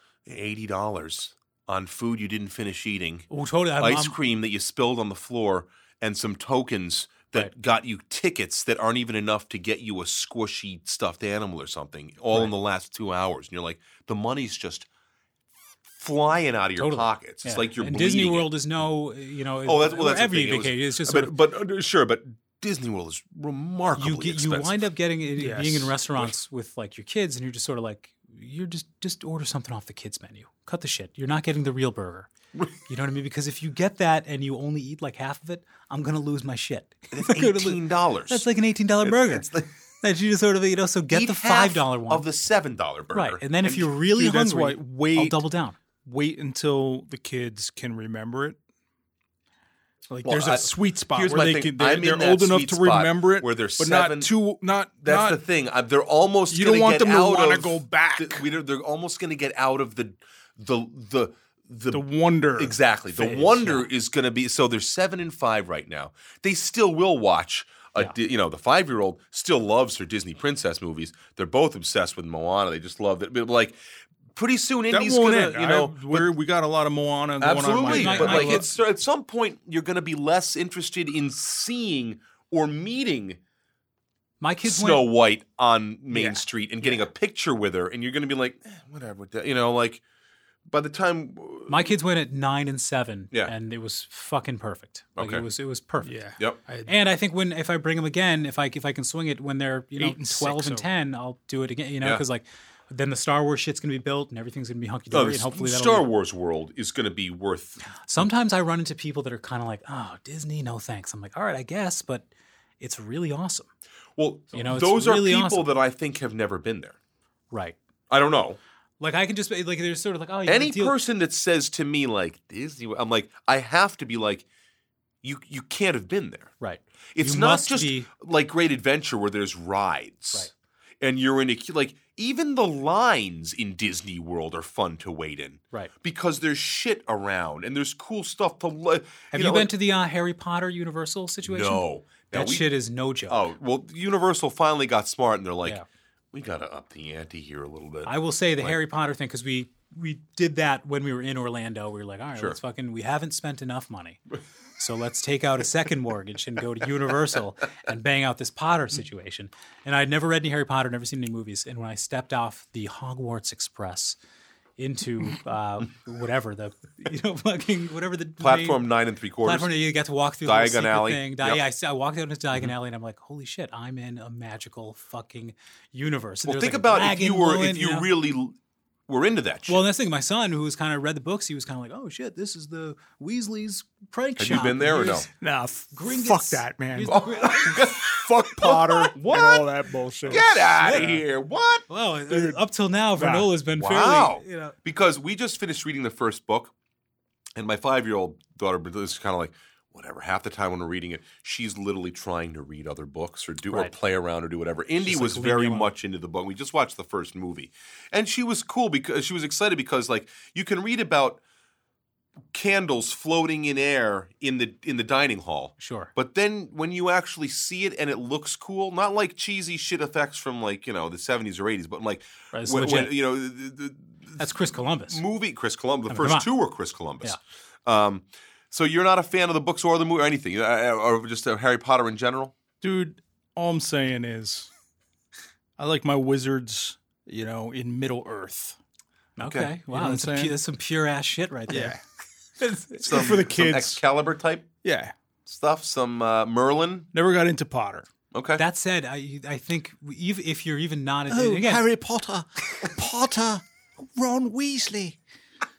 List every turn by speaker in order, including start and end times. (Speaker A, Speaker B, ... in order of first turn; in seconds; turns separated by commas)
Speaker A: 0.3-14.9, Speaker B: 3.3-4.2, Speaker A: 16.0-18.5, Speaker B: 16.8-21.3, Speaker A: 19.6-24.8, Speaker B: 24.0-32.3, Speaker C: 25.4-26.0, Speaker B: 32.9-39.5, Speaker A: 37.1-38.5, Speaker A: 39.0-39.7, Speaker B: 40.0-42.3, Speaker A: 41.1-43.9, Speaker B: 43.1-45.8, Speaker C: 44.1-45.4, Speaker C: 46.0-48.6, Speaker C: 50.1-55.4, Speaker A: 50.2-54.3, Speaker A: 55.0-73.8, Speaker C: 56.5-58.5, Speaker C: 61.9-62.8, Speaker B: 63.1-63.9, Speaker A: 74.3-76.4, Speaker C: 74.9-78.7, Speaker A: 77.4-83.4, Speaker B: 77.8-78.7, Speaker B: 84.4-85.1, Speaker A: 84.6-90.0, Speaker C: 86.1-86.4, Speaker A: 90.7-91.9, Speaker B: 91.7-96.2, Speaker A: 95.2-95.5, Speaker C: 96.0-96.9, Speaker B: 96.9-106.1, Speaker C: 100.0-100.9, Speaker A: 105.1-108.3, Speaker B: 108.0-112.3, Speaker B: 112.8-113.7, Speaker A: 114.2-117.0, Speaker B: 114.5-115.7, Speaker B: 117.5-117.8, Speaker A: 118.1-118.6, Speaker B: 119.0-121.0, Speaker A: 120.5-124.5, Speaker A: 125.2-126.5, Speaker B: 126.6-128.1, Speaker A: 127.1-130.5, Speaker A: 131.0-139.7, Speaker B: 139.3-143.5, Speaker A: 141.4-142.7, Speaker A: 143.3-145.8, Speaker A: 146.3-148.8, Speaker B: 148.1-154.2, Speaker B: 154.8-164.2, Speaker B: 164.8-168.8, Speaker A: 168.4-169.7, Speaker B: 169.4-178.1, Speaker A: 170.4-171.6, Speaker A: 176.4-178.6, Speaker A: 179.1-179.8, Speaker B: 179.7-185.3, Speaker A: 184.4-185.3, Speaker C: 185.4-187.2, Speaker B: 185.9-187.8, Speaker A: 187.1-189.7, Speaker C: 188.0-191.2, Speaker A: 190.3-191.8, Speaker B: 190.3-191.1, Speaker B: 191.9-194.8, Speaker C: 192.3-192.6, Speaker C: 193.2-193.5, Speaker A: 193.8-196.7, Speaker A: 197.6-211.4, Speaker B: 205.0-205.9, Speaker A: 212.5-224.5, Speaker B: 215.8-216.1, Speaker B: 222.5-223.1, Speaker B: 224.4-225.2, Speaker A: 225.1-232.6, Speaker B: 226.1-226.5, Speaker C: 232.8-234.7, Speaker C: 235.8-238.8, Speaker B: 239.4-242.0, Speaker A: 239.4-239.7, Speaker C: 239.9-240.6, Speaker C: 241.7-242.0, Speaker B: 242.6-243.0, Speaker C: 243.0-244.0, Speaker A: 243.0-244.7, Speaker C: 244.8-245.1, Speaker A: 245.5-247.1, Speaker C: 247.1-248.1, Speaker A: 248.3-248.6, Speaker B: 248.6-251.8, Speaker C: 251.3-255.2